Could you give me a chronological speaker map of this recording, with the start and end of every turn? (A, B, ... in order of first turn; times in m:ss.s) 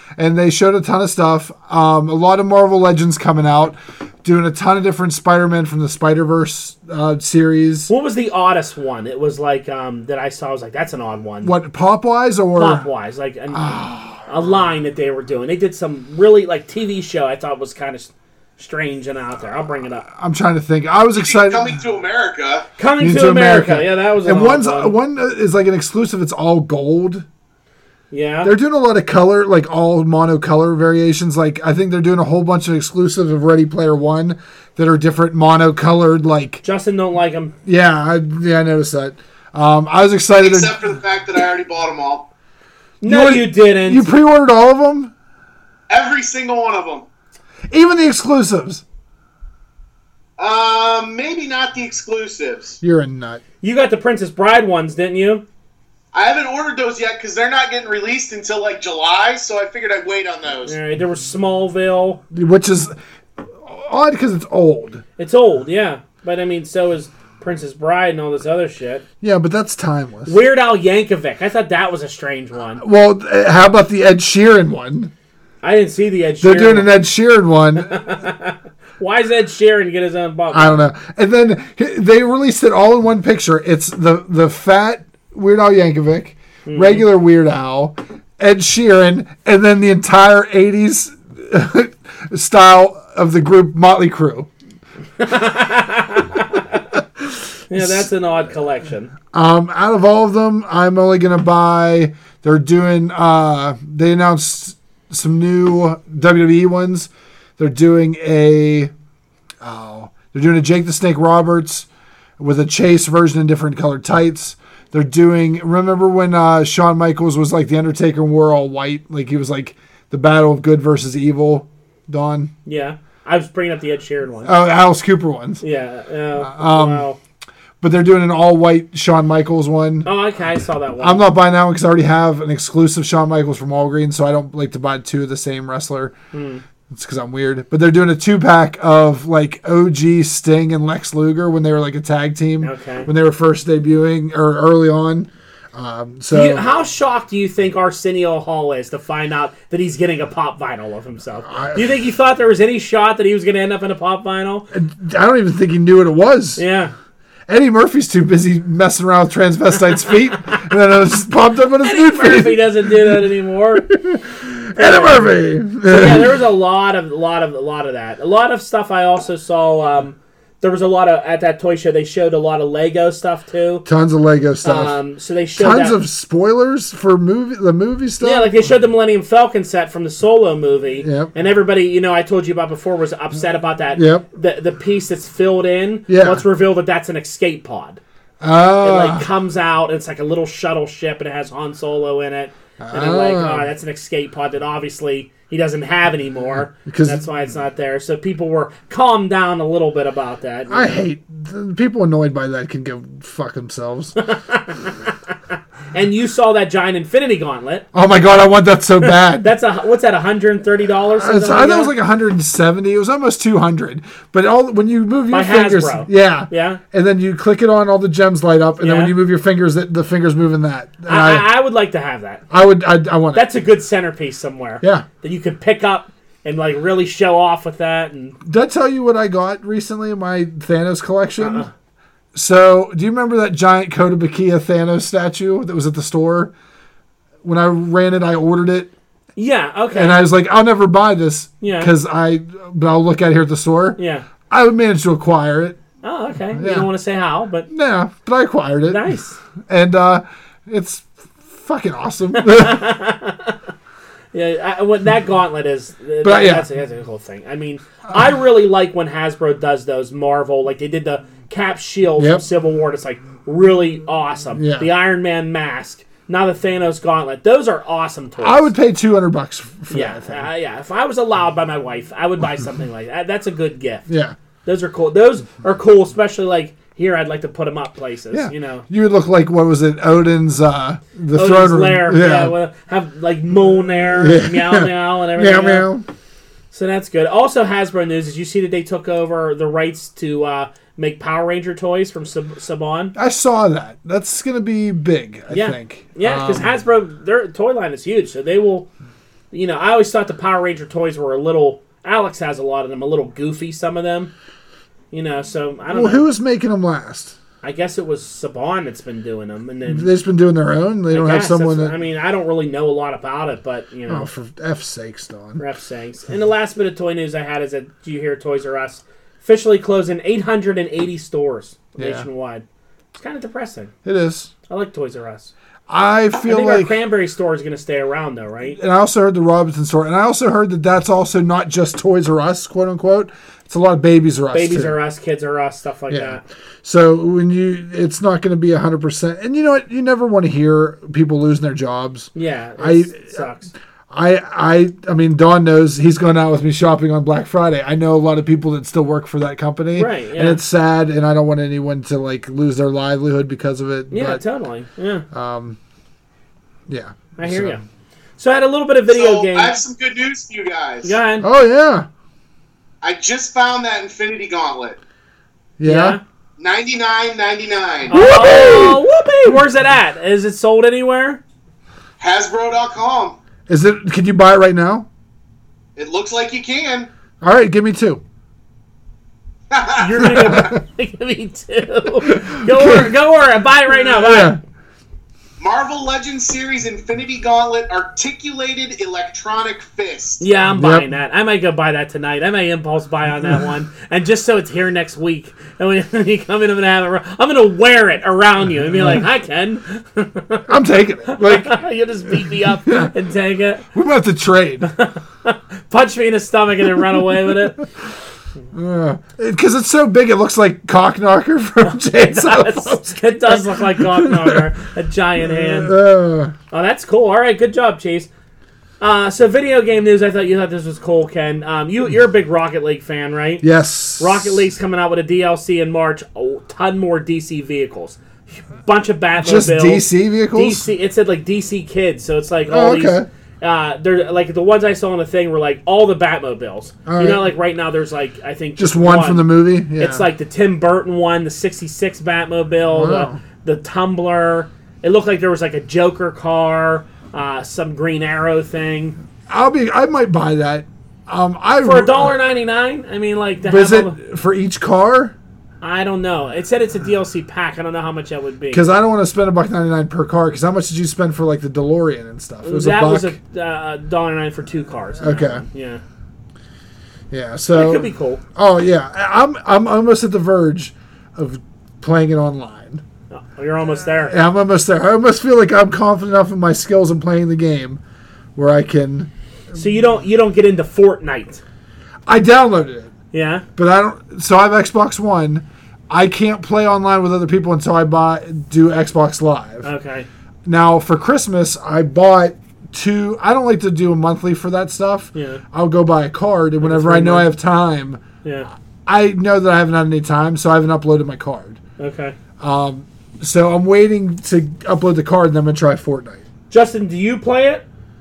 0:00.2-0:07.9 A
0:07.9-0:11.5 B
0:11.4-0:12.9 A
0:12.6-0:20.1 B
0:13.5-0:14.5 A
0:20.1-0:21.8 A
0:21.1-0:22.7 C
0:22.8-0:24.9 B
0:23.0-0:27.2 A
0:28.1-0:28.5 B
0:28.4-0:36.6 A
0:36.6-0:37.5 B
0:37.6-0:40.8 A
0:40.3-0:42.3 C
0:43.0-0:44.1 B
0:43.0-0:45.1 A
0:45.9-0:47.0 C
0:47.7-0:48.8 A
0:50.4-0:52.8 C
0:52.8-0:53.4 A
0:53.6-0:55.4 B
0:56.1-1:00.8 C
1:00.6-1:02.2 B
1:02.3-1:02.9 A
1:03.5-1:05.0 A
1:05.2-1:09.0 B
1:09.2-1:10.4 A
1:10.3-1:12.8 B
1:12.8-1:15.1 A
1:15.6-1:16.9 B
1:16.4-1:18.2 A
1:17.9-1:20.8 B
1:20.5-1:34.5 A
1:26.6-1:27.0 B
1:35.2-1:36.8 B
1:37.7-1:39.1 B
1:37.7-1:38.1 A
1:39.3-1:48.9 A
1:49.6-1:51.9 A
1:52.4-2:02.5 A
2:02.6-2:04.5 B
2:04.4-2:05.6 A
2:05.6-2:07.2 B
2:06.4-2:07.1 A
2:07.8-2:10.1 A
2:10.0-2:11.2 B
2:11.0-2:16.1 A
2:16.3-2:16.6 B
2:16.9-2:26.6 A
2:22.6-2:23.1 B
2:26.3-2:34.7 B
2:31.5-2:31.9 A
2:34.7-2:36.6 A
2:36.6-2:36.9 B
2:37.5-2:43.3 A
2:41.8-2:43.9 B
2:43.8-2:46.4 A
2:44.7-2:53.8 B
2:53.8-2:55.0 A
2:54.6-2:56.0 B
2:55.6-2:58.7 A
2:58.2-3:08.0 B
3:01.0-3:01.3 A
3:03.9-3:04.2 A
3:06.1-3:06.4 A
3:08.4-3:09.2 A
3:08.8-3:21.0 B
3:12.8-3:13.7 A
3:16.8-3:17.2 A
3:20.7-3:24.1 A
3:24.2-3:25.1 B
3:25.9-3:27.9 B
3:27.9-3:29.5 A
3:29.0-3:31.9 B
3:31.2-3:41.5 A
3:35.3-3:36.8 B
3:38.8-3:39.1 B
3:41.1-3:42.4 B
3:42.5-3:43.5 A
3:43.3-3:48.4 B
3:44.8-3:45.0 A
3:48.4-3:51.6 A
3:51.4-3:51.7 B
3:52.3-3:56.5 A
3:57.4-3:58.9 A
3:59.4-4:00.2 B
3:59.9-4:04.0 A
4:01.6-4:01.9 B
4:04.0-4:04.2 B
4:04.5-4:05.8 A
4:06.0-4:07.7 B
4:06.5-4:06.9 A
4:07.7-4:09.1 A
4:08.9-4:09.4 B
4:09.7-4:12.8 A
4:12.3-4:13.6 B
4:14.3-4:28.7 B
4:16.2-4:16.6 A
4:22.2-4:22.4 A
4:24.5-4:24.9 A
4:28.4-4:30.5 A
4:29.9-4:34.1 B
4:34.1-4:34.4 A
4:34.6-4:38.9 B
4:38.3-4:42.5 A
4:41.3-4:45.9 B
4:44.1-4:46.0 A
4:46.7-4:53.1 B
4:53.1-4:56.7 A
4:55.5-4:58.9 B
4:59.5-5:04.3 B
5:05.1-5:06.2 B
5:05.9-5:07.3 A
5:07.6-5:10.1 B
5:09.9-5:11.9 A
5:11.1-5:14.3 B
5:14.1-5:15.6 A
5:15.6-5:22.6 B
5:22.0-5:22.2 A
5:23.1-5:23.9 B
5:24.0-5:24.5 A
5:24.7-5:25.5 B
5:25.9-5:27.0 A
5:26.4-5:28.8 B
5:28.8-5:35.0 A
5:34.5-5:36.4 B
5:36.1-5:43.5 A
5:42.3-5:43.7 B
5:44.1-5:54.4 A
5:49.9-5:50.6 B
5:54.1-5:55.2 B
5:55.3-5:55.8 A
5:56.9-5:57.8 A
5:57.4-5:57.8 B
5:58.4-5:59.8 B
5:59.1-6:01.2 C
6:01.0-6:01.5 B
6:01.4-6:02.1 A
6:03.0-6:05.0 C
6:05.8-6:06.2 A
6:05.8-6:06.2 B
6:06.6-6:08.2 C
6:08.1-6:11.4 B
6:08.1-6:09.6 A
6:12.2-6:13.4 C
6:13.7-6:15.1 A
6:16.0-6:17.1 C
6:17.4-6:18.2 A
6:19.7-6:20.7 C
6:19.9-6:24.6 B
6:20.3-6:20.7 A
6:22.3-6:23.1 A
6:24.0-6:24.6 A
6:25.6-6:30.4 C
6:30.4-6:40.7 B
6:30.7-6:31.1 A
6:38.9-6:39.2 A
6:40.7-6:43.1 A
6:41.3-6:43.8 B
6:43.9-6:44.9 A
6:44.8-6:47.8 B
6:48.7-6:54.6 A
6:51.8-6:55.9 B
6:55.4-6:56.5 A
6:56.7-6:58.3 B
6:59.0-7:03.6 B
7:03.6-7:04.6 A
7:04.2-7:29.2 B
7:09.4-7:10.8 A
7:12.7-7:13.3 A
7:17.0-7:17.4 A
7:18.8-7:20.2 A
7:22.9-7:23.4 A
7:29.5-7:32.3 A
7:31.8-7:34.2 B
7:33.6-7:35.3 A
7:35.8-7:38.8 B
7:38.7-7:43.4 A
7:42.6-7:46.0 B
7:45.2-7:45.6 A
7:47.3-7:53.0 A
7:47.7-7:48.4 B
7:53.3-7:54.4 B
7:54.3-7:58.0 A
7:58.6-7:59.3 A
7:59.7-8:01.6 B
8:02.2-8:03.1 A
8:03.3-8:03.6 B
8:03.8-8:09.9 A
8:09.8-8:10.3 B
8:10.6-8:18.2 A
8:15.3-8:15.6 B
8:16.8-8:17.5 B
8:18.4-8:18.7 B
8:19.0-8:21.8 A
8:22.0-8:22.4 B
8:22.6-8:26.4 A
8:26.7-8:27.8 B